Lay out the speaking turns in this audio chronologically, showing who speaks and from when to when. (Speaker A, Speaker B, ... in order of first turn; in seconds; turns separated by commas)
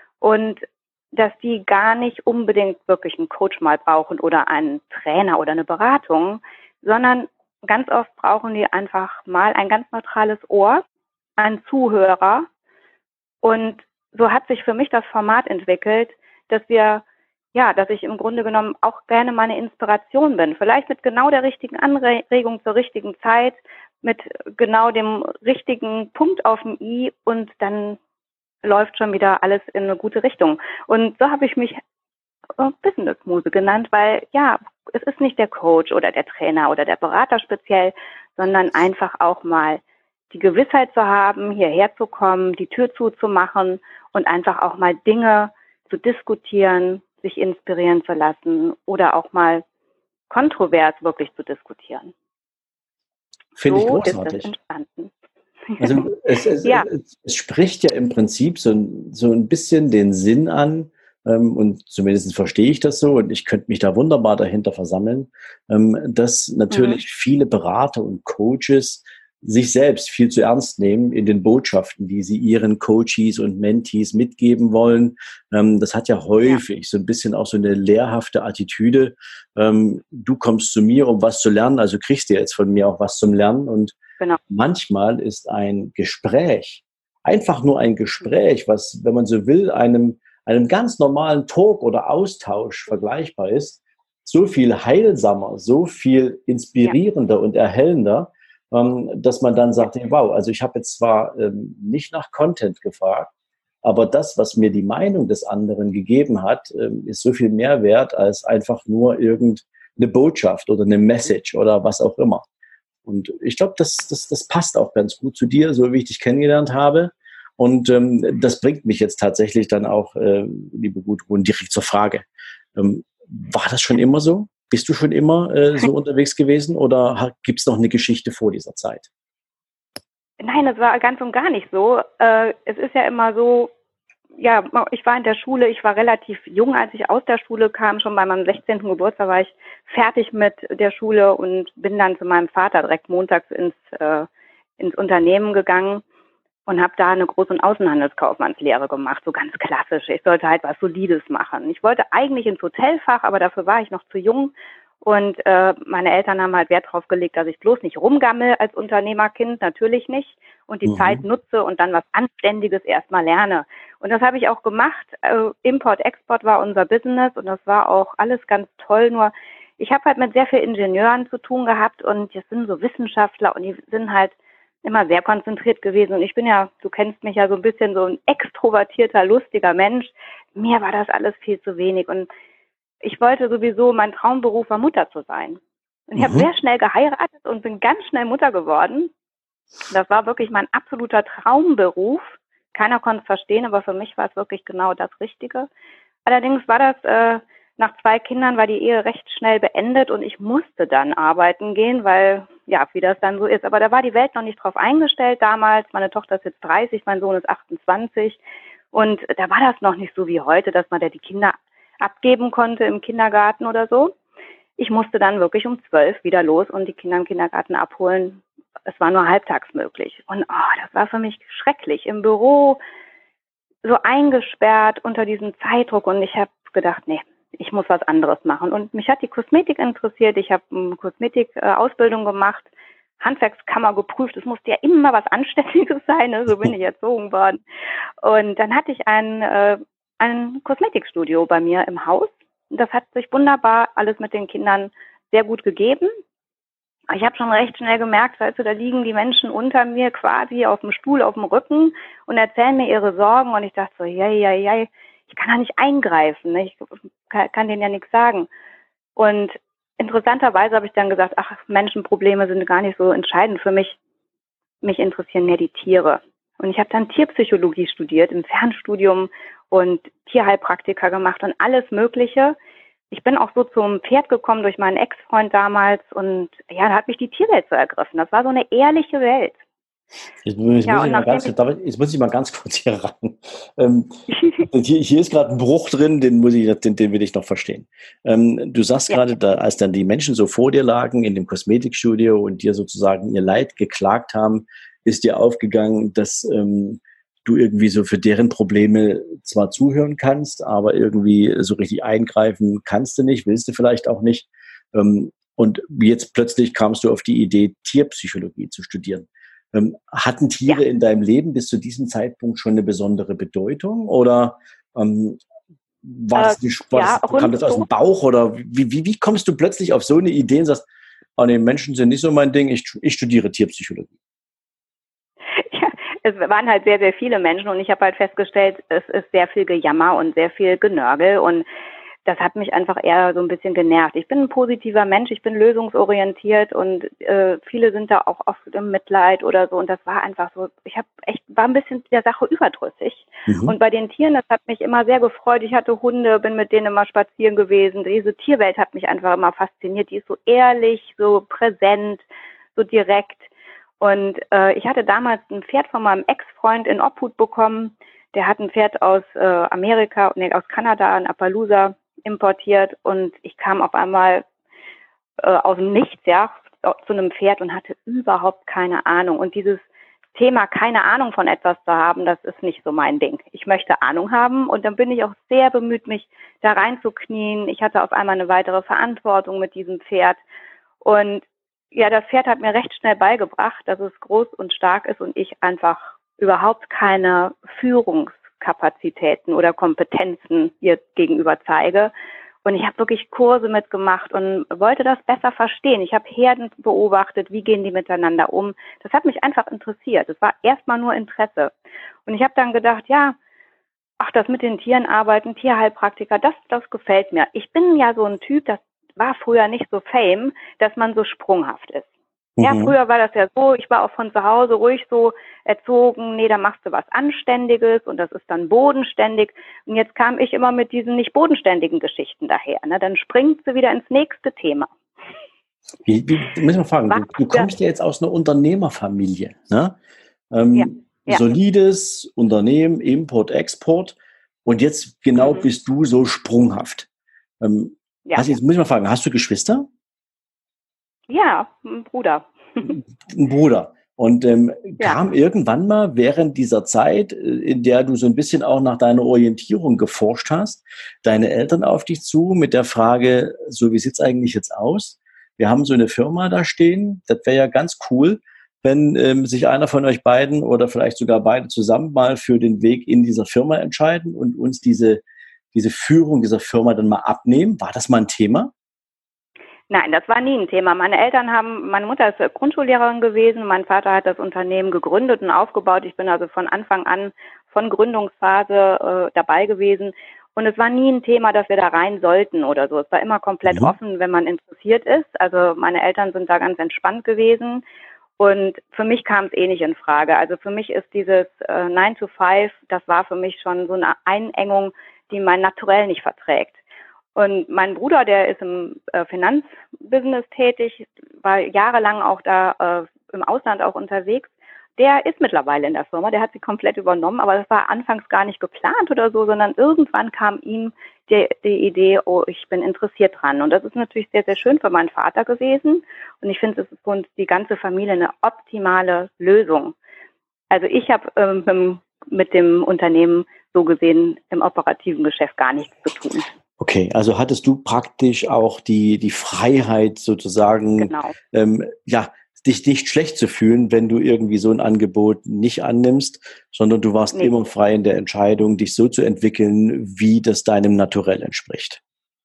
Speaker A: 0.2-10.8, Speaker A: 11.4-12.5, Speaker A: 13.4-28.0, Speaker A: 28.6-31.8, Speaker A: 32.6-49.6, Speaker A: 50.3-52.1, Speaker B: 53.5-54.5, Speaker A: 53.6-55.1, Speaker A: 55.7-56.1, Speaker B: 55.8-84.0, Speaker A: 66.7-67.0, Speaker B: 84.5-103.3, Speaker B: 103.8-112.5, Speaker B: 113.0-129.1, Speaker A: 130.4-133.7, Speaker A: 134.4-144.3, Speaker A: 144.8-146.0, Speaker A: 146.7-182.3, Speaker B: 160.8-161.2, Speaker A: 183.0-189.1, Speaker B: 186.2-186.5, Speaker A: 189.9-195.7, Speaker A: 196.2-208.4, Speaker A: 208.9-214.1, Speaker A: 214.8-222.8, Speaker A: 223.8-237.6, Speaker A: 238.2-246.1, Speaker A: 247.1-258.5, Speaker A: 259.1-264.0, Speaker A: 264.8-272.6, Speaker A: 273.1-279.6, Speaker B: 280.4-315.4, Speaker A: 280.9-281.5, Speaker A: 284.3-284.7, Speaker B: 316.0-320.8, Speaker A: 316.3-317.9, Speaker B: 321.4-324.1, Speaker A: 325.5-331.6, Speaker A: 332.2-364.4, Speaker B: 343.5-343.7, Speaker A: 365.4-380.4, Speaker A: 381.0-392.1, Speaker A: 392.6-401.7, Speaker A: 402.2-403.4, Speaker A: 404.2-412.1, Speaker B: 412.6-412.9, Speaker A: 412.6-424.9, Speaker B: 426.1-430.0, Speaker A: 427.1-427.7, Speaker B: 430.5-437.1, Speaker A: 430.7-431.4, Speaker A: 435.4-435.6, Speaker B: 437.6-439.9, Speaker A: 438.2-438.5, Speaker A: 441.3-443.0, Speaker B: 442.8-465.2, Speaker B: 465.7-468.7, Speaker A: 469.9-487.8, Speaker B: 483.6-483.9, Speaker A: 488.4-496.8, Speaker A: 497.3-519.9, Speaker A: 520.7-526.5, Speaker B: 526.8-542.0, Speaker A: 531.0-531.3